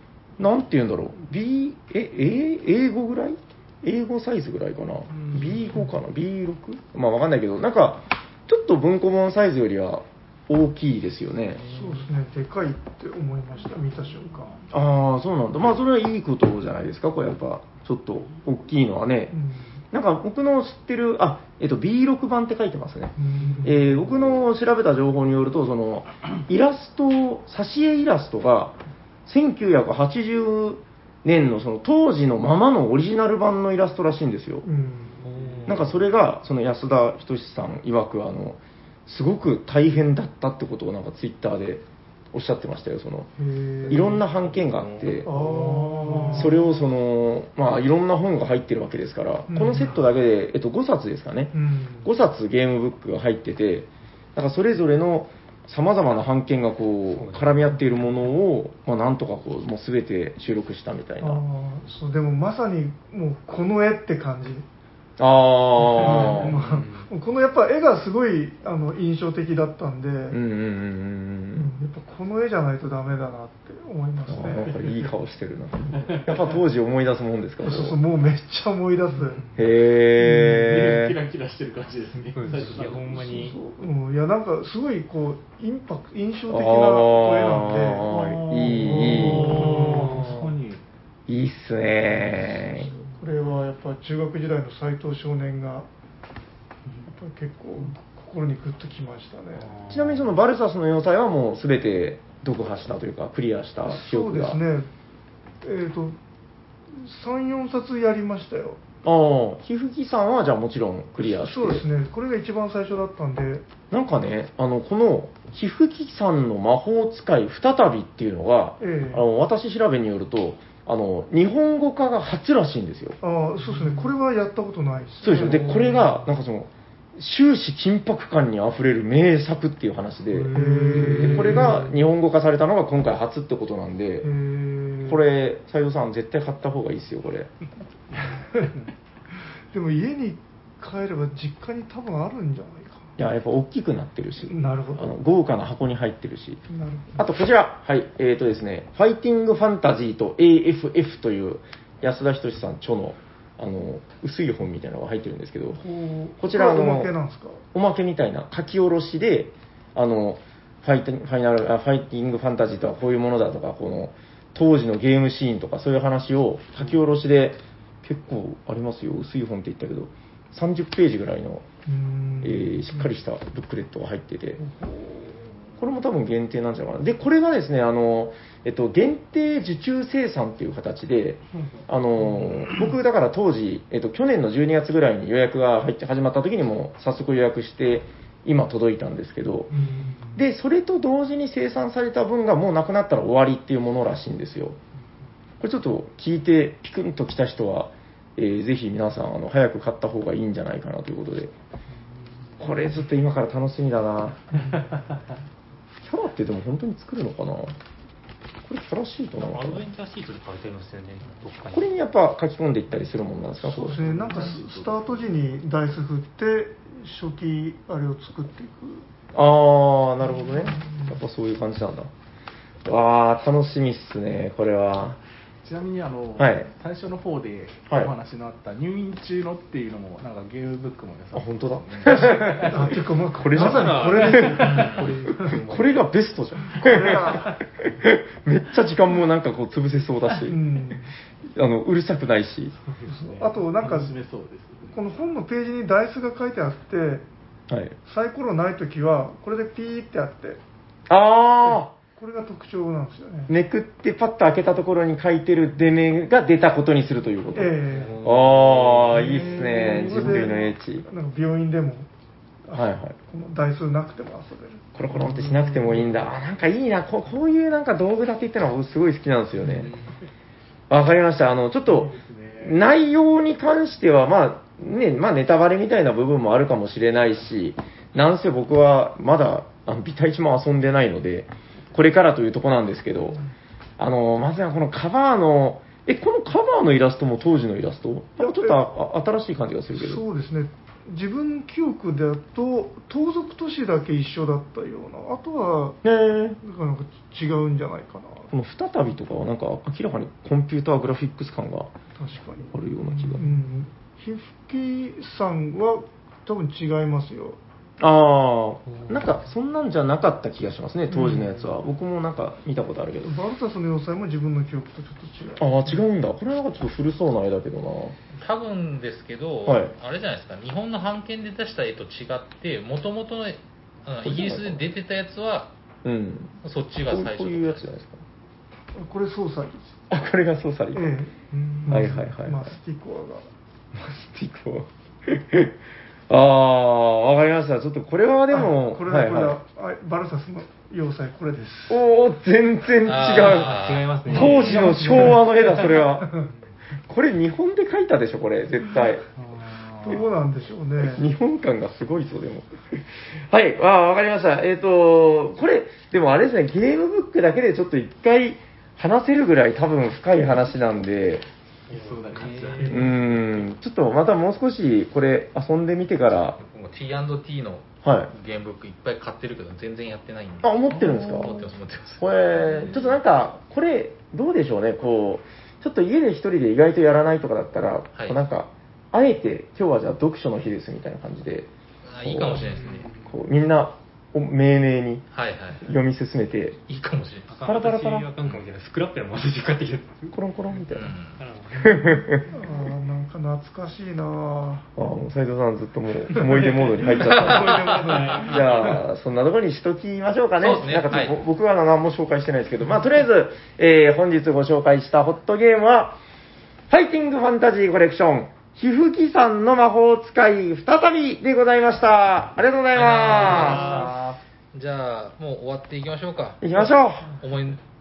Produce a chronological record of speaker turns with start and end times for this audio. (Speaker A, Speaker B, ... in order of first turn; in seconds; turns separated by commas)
Speaker A: 0.4-11.7, Speaker B: 11.7-14.6, Speaker A: 14.7-19.3, Speaker B: 19.3-19.8, Speaker A: 19.9-34.6, Speaker B: 23.2-23.9, Speaker B: 34.6-35.2, Speaker C: 35.2-35.9, Speaker D: 35.3-35.8, Speaker A: 35.7-43.3, Speaker B: 43.4-44.2, Speaker A: 43.9-45.3, Speaker D: 45.1-46.4, Speaker B: 45.2-46.6, Speaker A: 46.3-61.4, Speaker B: 49.5-50.0, Speaker B: 51.5-52.1, Speaker C: 57.1-57.6, Speaker B: 61.2-64.6, Speaker A: 65.2-66.6, Speaker B: 66.0-70.4, Speaker C: 66.3-67.1, Speaker A: 70.3-71.7, Speaker B: 71.6-74.8, Speaker A: 74.3-78.0, Speaker B: 77.6-79.5, Speaker A: 79.5-81.1, Speaker D: 80.3-83.2, Speaker C: 82.3-83.6, Speaker B: 83.1-90.4, Speaker A: 86.5-89.8, Speaker D: 88.1-90.8, Speaker C: 89.0-90.5, Speaker A: 91.3-92.9, Speaker B: 93.2-95.9, Speaker B: 97.1-99.7, Speaker C: 99.7-100.1, Speaker A: 99.9-104.6, Speaker B: 103.9-104.9, Speaker B: 105.6-106.2, Speaker B: 107.0-108.8, Speaker A: 109.0-111.8, Speaker B: 111.2-113.7, Speaker A: 113.9-123.2, Speaker B: 118.8-119.2, Speaker B: 123.2-125.7, Speaker A: 125.2-134.3, Speaker C: 125.6-126.0, Speaker C: 130.4-131.8, Speaker B: 130.5-131.9, Speaker B: 134.2-135.2, Speaker A: 135.0-137.5, Speaker B: 138.4-138.8, Speaker B: 139.7-143.2, Speaker A: 143.2-146.6, Speaker B: 144.4-145.1, Speaker B: 146.7-147.2, Speaker A: 147.2-155.8, Speaker B: 155.8-157.6, Speaker A: 156.4-157.1, Speaker A: 157.7-171.6, Speaker B: 171.8-173.1, Speaker A: 172.4-174.6, Speaker B: 174.6-175.4, Speaker A: 175.8-189.7, Speaker B: 189.7-190.4, Speaker A: 190.3-194.8, Speaker A: 195.6-201.5, Speaker A: 202.6-204.4, Speaker A: 206.0-207.7, Speaker A: 208.6-209.8, Speaker C: 209.4-211.9, Speaker A: 211.7-214.3, Speaker B: 213.6-219.1, Speaker D: 214.2-215.1, Speaker A: 219.3-222.1, Speaker B: 220.4-221.1, Speaker A: 222.8-225.2, Speaker D: 225.6-232.9, Speaker A: 226.4-226.7, Speaker A: 231.3-234.8, Speaker B: 232.5-235.1, Speaker C: 233.5-235.9, Speaker D: 234.2-235.9, Speaker A: 235.5-240.6, Speaker B: 236.8-237.5, Speaker B: 240.4-241.1, Speaker A: 241.5-242.8, Speaker D: 242.9-245.0, Speaker B: 243.1-244.1, Speaker B: 244.9-247.2, Speaker A: 247.7-247.9, Speaker B: 248.1-250.6, Speaker A: 251.1-251.9, Speaker B: 252.2-253.5, Speaker A: 253.5-261.1, Speaker B: 257.5-258.2, Speaker C: 257.9-259.1, Speaker B: 259.1-262.1, Speaker D: 259.2-260.1, Speaker B: 262.6-264.8, Speaker A: 262.7-263.1, Speaker A: 264.9-269.9, Speaker A: 270.9-283.4, Speaker D: 271.9-272.8, Speaker A: 284.0-290.2, Speaker B: 288.4-288.8, Speaker B: 289.9-296.0, Speaker A: 296.0-296.6, Speaker B: 296.6-298.5, Speaker A: 298.5-301.9, Speaker B: 302.2-302.7, Speaker A: 302.7-303.5, Speaker B: 303.3-307.6, Speaker A: 308.0-313.4, Speaker B: 311.1-311.7, Speaker B: 313.2-316.0, Speaker A: 315.6-318.1, Speaker E: 318.4-325.7, Speaker A: 319.6-319.9, Speaker A: 324.2-324.9, Speaker A: 326.0-326.6, Speaker E: 326.6-327.9, Speaker A: 327.1-328.2, Speaker B: 328.9-329.9, Speaker A: 330.1-331.1, Speaker B: 330.9-333.4, Speaker A: 331.9-332.7, Speaker A: 333.9-335.7, Speaker A: 336.3-339.6, Speaker B: 338.5-342.0, Speaker A: 341.9-346.3, Speaker E: 343.0-344.8, Speaker C: 343.4-346.0, Speaker B: 344.4-345.4, Speaker A: 347.1-349.2, Speaker C: 349.4-350.2, Speaker B: 350.0-351.2, Speaker A: 351.0-361.4, Speaker D: 361.9-363.2, Speaker C: 361.9-363.5, Speaker A: 362.9-366.6, Speaker E: 366.6-373.1, Speaker A: 368.0-368.3, Speaker A: 370.6-371.6, Speaker A: 372.2-381.7, Speaker E: 382.0-383.1, Speaker A: 382.2-385.2, Speaker E: 385.3-385.8, Speaker A: 385.8-386.8, Speaker E: 386.9-387.5, Speaker C: 387.5-390.3, Speaker A: 387.6-388.3, Speaker A: 390.3-391.1, Speaker E: 390.9-391.4, Speaker C: 391.4-392.4, Speaker A: 391.8-392.5, Speaker B: 392.5-394.9, Speaker A: 394.9-406.2, Speaker E: 397.2-398.9, Speaker B: 397.4-398.5, Speaker D: 397.7-398.0, Speaker C: 397.8-398.9, Speaker E: 400.6-401.3, Speaker A: 406.9-414.1, Speaker E: 412.9-414.1, Speaker C: 413.6-414.2, Speaker E: 414.7-417.8, Speaker A: 416.6-417.3